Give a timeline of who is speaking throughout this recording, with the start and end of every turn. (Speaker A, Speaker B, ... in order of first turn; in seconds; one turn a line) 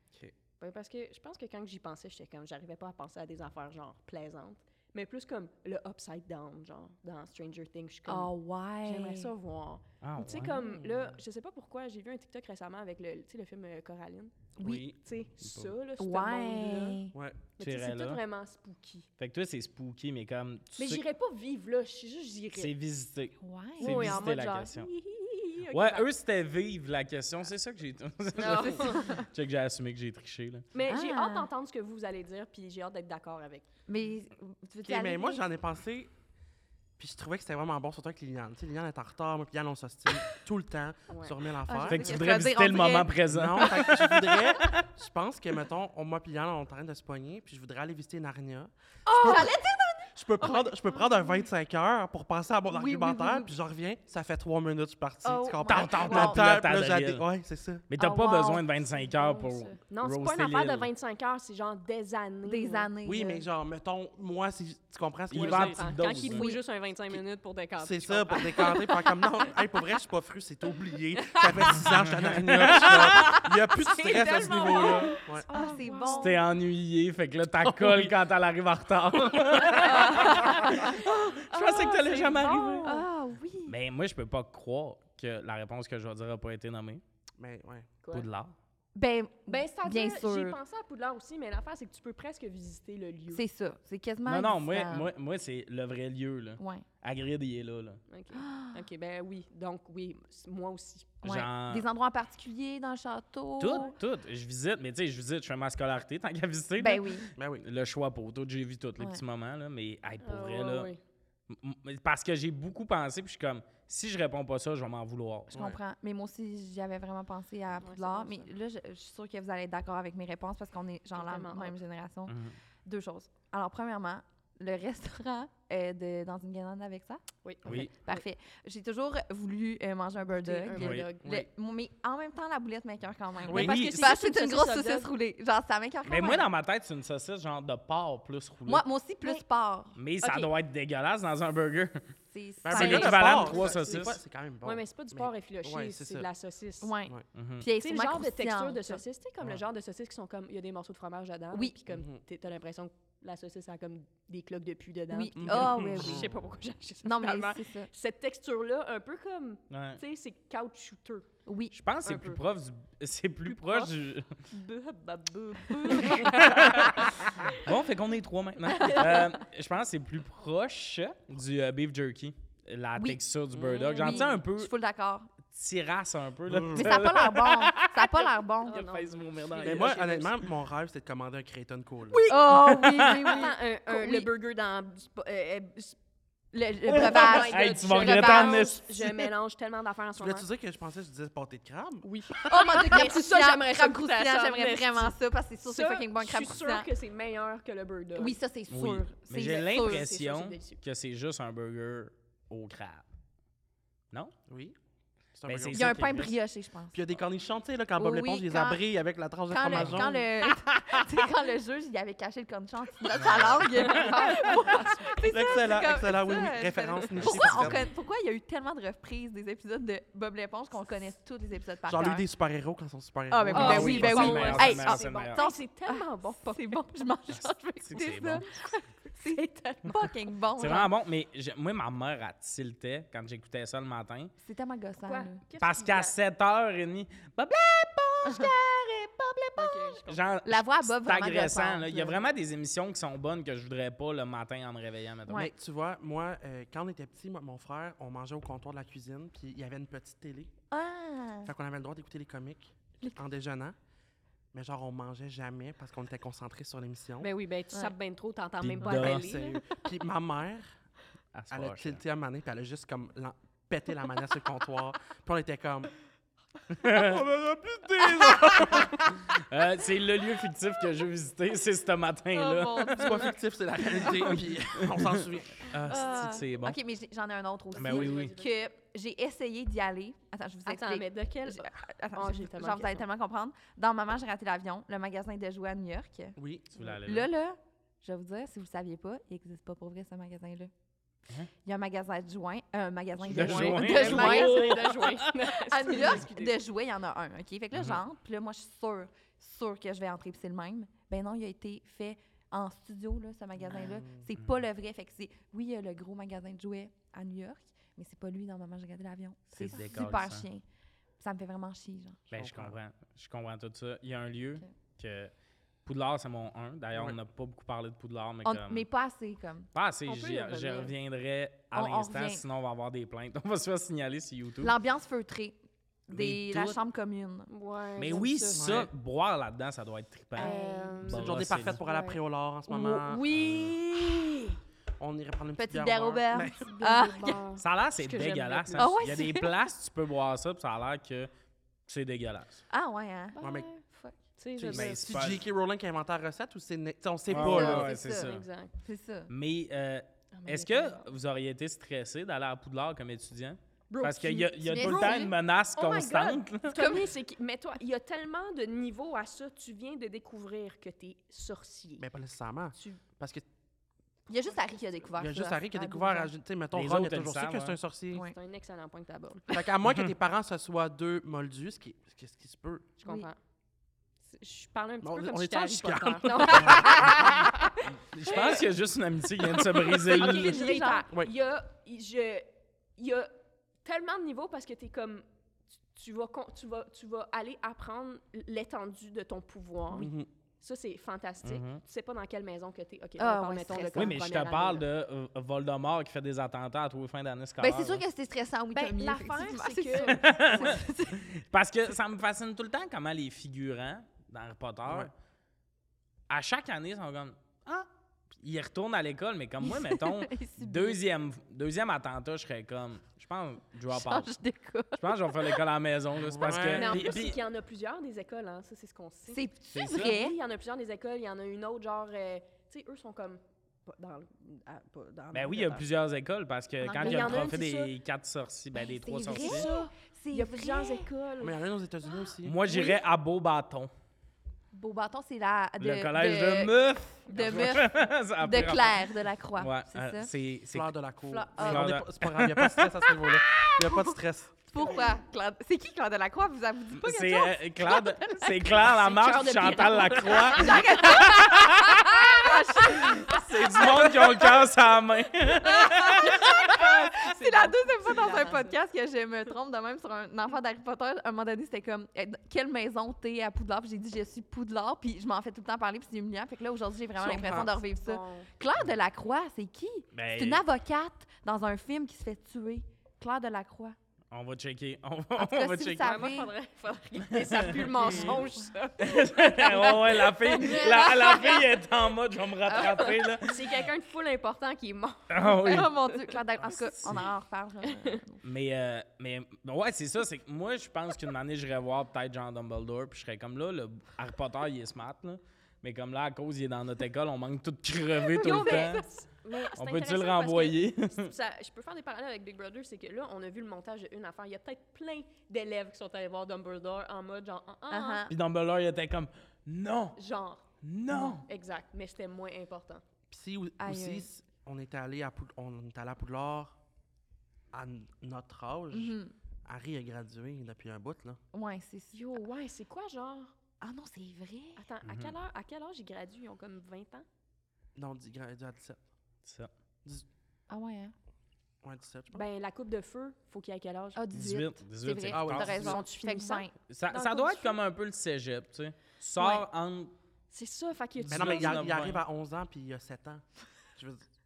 Speaker A: 0.6-17.0
Speaker B: 8.1-9.3
Speaker C: 10.0-10.6
Speaker B: 14.6-14.9
Speaker C: 14.7-14.9
Speaker B: 16.0-17.1
Speaker D: 17.1-17.4
Speaker A: 17.6-19.1
Speaker C: 17.6-18.2
Speaker C: 19.2-21.0
Speaker A: 20.8-22.7
Speaker C: 22.5-24.9
Speaker B: 23.4-24.3
Speaker A: 23.8-26.1
Speaker C: 25.7-30.7
Speaker A: 28.4-29.2
Speaker B: 28.4-29.3
Speaker A: 30.7-33.7
Speaker B: 30.9-31.5
Speaker B: 33.9-35.4
Speaker D: 34.8-36.1
Speaker D: 37.0-42.2
Speaker A: 41.1-41.4
Speaker B: 41.7-43.7
Speaker C: 41.9-44.9
Speaker D: 43.3-57.9
Speaker B: 49.1-51.4
Speaker B: 52.7-53.5
Speaker B: 55.2-56.5
Speaker C: 55.6-57.2
Speaker C: 57.9-60.9
Speaker B: 58.0-58.8
Speaker A: 59.0-62.9
Speaker B: 62.5-63.5
Speaker D: 63.0-66.1
Speaker C: 65.3-66.5
Speaker A: 65.3-69.6
Speaker B: 66.2-66.6
Speaker D: 67.8-75.5
Speaker A: 71.3-71.8
Speaker C: 71.8-73.5
Speaker A: 72.8-76.4
Speaker B: 74.4-76.4
Speaker C: 76.1-83.0
Speaker D: 77.6-78.1
Speaker A: 79.8-83.0
Speaker B: 79.8-80.9
Speaker B: 82.8-83.8
Speaker C: 83.7-87.0
Speaker D: 87.4-87.9
Speaker C: 88.1-88.5
Speaker B: 89.0-90.6
Speaker A: 89.5-93.4
Speaker B: 93.3-95.1
Speaker C: 94.3-98.0
Speaker B: 96.6-96.8
Speaker A: 98.1-101.2
Speaker B: 98.3-98.9
Speaker C: 101.2-101.9
Speaker B: 101.2-104.0
Speaker C: 103.6-110.9
Speaker B: 106.8-107.3
Speaker D: 107.4-107.7
Speaker A: 110.2-111.0
Speaker C: 111.5-115.6
Speaker D: 115.5-115.8
Speaker B: 115.5-136.5
Speaker A: 117.8-118.5
Speaker A: 121.2-121.8
Speaker C: 122.3-122.6
Speaker A: 127.4-128.2
Speaker C: 127.7-127.9
Speaker A: 130.3-131.3
Speaker C: 130.7-131.1
Speaker D: 131.2-131.5
Speaker C: 133.5-134.1
Speaker A: 133.5-135.1
Speaker C: 136.1-138.8
Speaker B: 138.7-140.0
Speaker C: 140.0-142.0
Speaker A: 140.2-140.5
Speaker B: 142.3-143.7
Speaker D: 142.6-146.3
Speaker C: 142.7-144.2
Speaker A: 143.3-144.0
Speaker A: 144.6-146.9
Speaker B: 146.8-149.0
Speaker C: 147.3-147.7
Speaker A: 147.8-161.3
Speaker D: 151.9-152.2
Speaker B: 155.1-156.3
Speaker D: 155.4-156.3
Speaker B: 157.0-157.9
Speaker C: 159.7-160.0
Speaker B: 161.5-161.7
Speaker C: 161.7-164.3
Speaker A: 162.1-162.4
Speaker A: 163.5-164.0
Speaker A: 164.5-167.6
Speaker B: 165.8-166.3
Speaker C: 166.1-174.7
Speaker A: 168.7-169.3
Speaker B: 173.0-173.2
Speaker A: 173.6-174.4
Speaker B: 173.9-175.3
Speaker C: 175.5-180.5
Speaker D: 176.5-177.0
Speaker B: 176.7-178.8
Speaker A: 178.7-180.2
Speaker D: 179.6-182.2
Speaker A: 182.1-182.4
Speaker C: 182.3-183.5
Speaker B: 182.3-184.3
Speaker A: 183.0-186.0
Speaker B: 186.5-188.7
Speaker C: 186.9-189.2
Speaker A: 186.9-190.5
Speaker D: 190.2-192.1
Speaker A: 192.0-198.4
Speaker B: 192.4-196.9
Speaker B: 198.2-200.1
Speaker C: 198.7-203.1
Speaker A: 199.3-200.8
Speaker D: 204.5-204.8
Speaker D: 205.3-206.3
Speaker C: 205.5-206.3
Speaker B: 205.7-207.0
Speaker D: 206.9-210.2
Speaker B: 208.0-208.8
Speaker B: 209.5-222.3
Speaker C: 209.7-210.1
Speaker C: 213.1-214.1
Speaker A: 213.7-215.7
Speaker D: 215.3-217.8
Speaker A: 217.2-217.5
Speaker C: 217.4-217.7
Speaker D: 221.9-224.7
Speaker B: 223.3-230.9
Speaker A: 223.4-227.2
Speaker C: 223.5-225.4
Speaker C: 227.3-228.4
Speaker A: 228.5-230.1
Speaker C: 230.6-234.3
Speaker B: 234.4-235.4
Speaker A: 235.0-236.2
Speaker C: 235.6-245.5
Speaker B: 238.2-238.5
Speaker A: 239.6-240.3
Speaker B: 240.4-242.3
Speaker D: 245.3-250.5
Speaker B: 250.7-251.5
Speaker D: 251.5-253.8
Speaker D: 254.5-257.3
Speaker A: 257.2-259.6
Speaker C: 258.6-259.3
Speaker D: 258.8-260.7
Speaker C: 261.3-262.0
Speaker D: 261.5-265.9
Speaker C: 266.7-267.2
Speaker D: 266.9-269.2
Speaker C: 268.2-273.3
Speaker B: 272.3-273.3
Speaker D: 273.0-276.4
Speaker C: 274.1-276.8
Speaker B: 275.9-286.4
Speaker A: 277.8-278.5
Speaker C: 277.8-278.3
Speaker A: 280.7-283.0
Speaker D: 286.4-286.8
Speaker C: 286.8-287.3
Speaker B: 287.0-290.7
Speaker B: 291.6-295.1
Speaker C: 293.3-295.3
Speaker A: 293.3-296.6
Speaker B: 295.6-310.6
Speaker C: 297.8-298.0
Speaker D: 303.6-304.3
Speaker C: 309.5-310.5
Speaker B: 311.2-312.2
Speaker D: 312.3-312.8
Speaker C: 312.3-315.3
Speaker C: 315.9-318.9
Speaker B: 318.4-319.7
Speaker C: 319.7-324.8
Speaker A: 320.1-320.9
Speaker B: 321.7-322.4
Speaker B: 324.6-327.5
Speaker C: 326.1-326.8
Speaker A: 327.5-328.8
Speaker C: 328.0-330.5
Speaker D: 328.5-328.9
Speaker B: 330.4-331.1
Speaker A: 330.4-334.5
Speaker D: 331.0-333.4
Speaker C: 331.1-331.8
Speaker C: 333.3-333.7
Speaker D: 335.0-336.7
Speaker B: 335.6-337.4
Speaker A: 336.5-339.0
Speaker C: 337.6-341.3
Speaker B: 338.8-339.6
Speaker C: 341.9-342.6
Speaker B: 342.7-344.2
Speaker A: 343.4-343.8
Speaker D: 343.4-343.7
Speaker A: 344.4-345.2
Speaker D: 344.6-347.9
Speaker C: 344.7-345.4
Speaker C: 347.3-348.5
Speaker B: 347.3-349.3
Speaker A: 347.9-348.7
Speaker C: 349.3-356.8
Speaker A: 350.3-351.1
Speaker A: 353.9-362.1
Speaker B: 354.6-355.3
Speaker B: 356.7-357.1
Speaker D: 362.0-363.4
Speaker B: 364.3-366.3
Speaker A: 364.5-364.9
Speaker D: 365.2-368.3
Speaker C: 366.7-367.8
Speaker A: 368.1-369.6
Speaker D: 369.5-372.9
Speaker A: 373.0-373.4
Speaker A: 374.2-377.7
Speaker D: 375.0-377.4
Speaker B: 376.6-377.5
Speaker C: 377.9-380.7
Speaker A: 378.2-378.7
Speaker A: 379.6-383.3
Speaker B: 379.9-381.1
Speaker A: 383.8-385.2
Speaker A: 385.9-394.9
Speaker D: 389.9-390.3
Speaker C: 391.4-391.8
Speaker B: 393.2-394.2
Speaker C: 393.9-398.0
Speaker B: 397.6-401.3
Speaker A: 398.7-400.8
Speaker C: 400.1-405.1
Speaker C: 406.3-407.9
Speaker C: 408.4-414.4
Speaker B: 409.6-411.0
Speaker B: 413.9-415.6
Speaker C: 415.0-417.4
Speaker D: 416.2-417.2
Speaker A: 416.5-425.9
Speaker B: 419.3-420.4
Speaker C: 419.7-420.2
Speaker C: 425.3-429.7
Speaker B: 426.8-427.5
Speaker A: 427.0-427.9
Speaker B: 428.7-431.1
Speaker A: 429.3-431.7
Speaker D: 431.4-432.6
Speaker C: 432.4-433.9
Speaker B: 434.7-440.3
Speaker C: 435.8-439.0
Speaker C: 439.6-440.9
Speaker D: 440.7-444.5
Speaker A: 441.3-441.5
Speaker B: 441.6-442.0
Speaker C: 441.6-442.8
Speaker B: 443.2-448.8
Speaker A: 444.8-445.1
Speaker C: 447.0-457.0
Speaker A: 448.8-451.2
Speaker B: 450.2-454.6
Speaker A: 452.3-452.9
Speaker B: 455.6-474.0
Speaker A: 456.3-458.8
Speaker D: 467.2-467.7
Speaker A: 467.2-468.5
Speaker C: 470.1-470.6
Speaker C: 474.3-476.2
Speaker B: 475.4-476.5
Speaker A: 475.9-481.8
Speaker C: 477.3-477.8
Speaker B: 477.9-478.7
Speaker C: 479.0-483.9
Speaker B: 480.7-481.1
Speaker B: 482.7-483.3
Speaker A: 482.7-486.4
Speaker C: 485.3-486.0
Speaker B: 485.4-488.4
Speaker C: 486.7-487.3
Speaker A: 487.9-488.2
Speaker C: 488.4-499.0
Speaker A: 498.3-508.3
Speaker B: 498.4-499.1
Speaker C: 499.8-501.3
Speaker B: 507.9-508.3
Speaker C: 508.3-510.2
Speaker A: 510.2-510.7
Speaker C: 510.8-511.5
Speaker B: 511.1-511.4
Speaker A: 511.2-513.0
Speaker D: 513.3-516.8
Speaker B: 513.8-514.3
Speaker D: 517.7-521.4
Speaker B: 518.9-519.3
Speaker B: 521.5-522.3
Speaker A: 522.1-523.5
Speaker B: 523.8-524.9
Speaker A: 524.8-527.2
Speaker C: 525.0-525.4
Speaker D: 528.0-529.0
Speaker C: 529.4-529.7
Speaker B: 530.7-531.1
Speaker D: 531.8-532.5
Speaker A: 532.3-534.3
Speaker B: 534.1-536.7
Speaker C: 534.3-536.0
Speaker D: 535.3-536.0
Speaker A: 535.7-537.8
Speaker C: 536.9-540.1
Speaker B: 539.4-539.6
Speaker A: 540.5-541.9
Speaker C: 541.2-542.2
Speaker D: 541.3-543.4
Speaker D: 544.0-544.2